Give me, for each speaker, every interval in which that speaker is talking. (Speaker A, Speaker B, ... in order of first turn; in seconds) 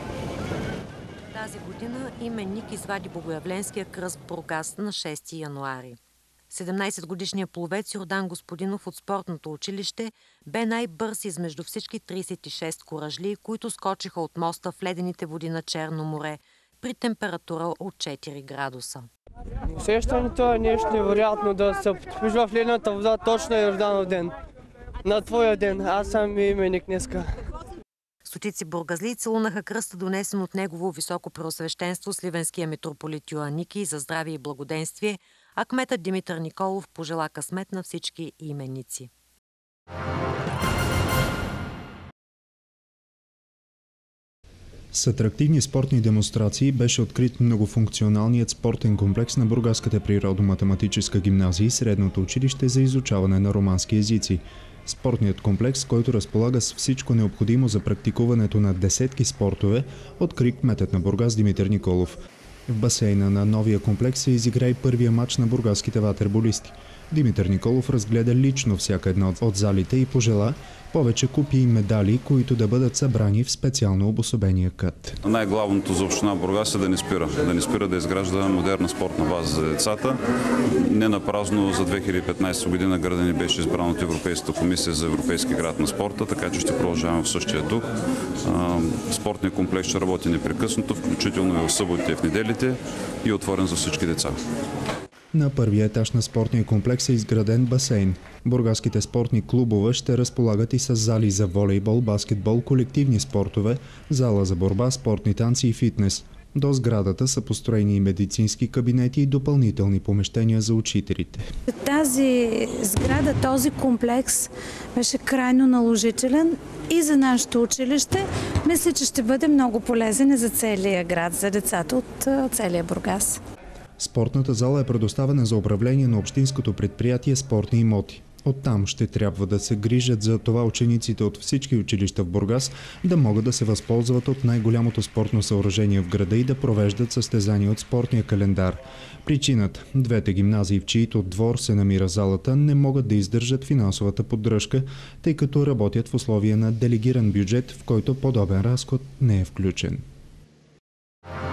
Speaker A: 1.3-6.0, 6.5-19.1, 28.2-39.1
Speaker B: 19.7-24.3, 25.0-27.4
Speaker C: 44.9-75.2, 95.3-111.5, 124.0-150.0
Speaker D: 75.2-87.8, 88.4-94.4
Speaker E: 111.7-123.4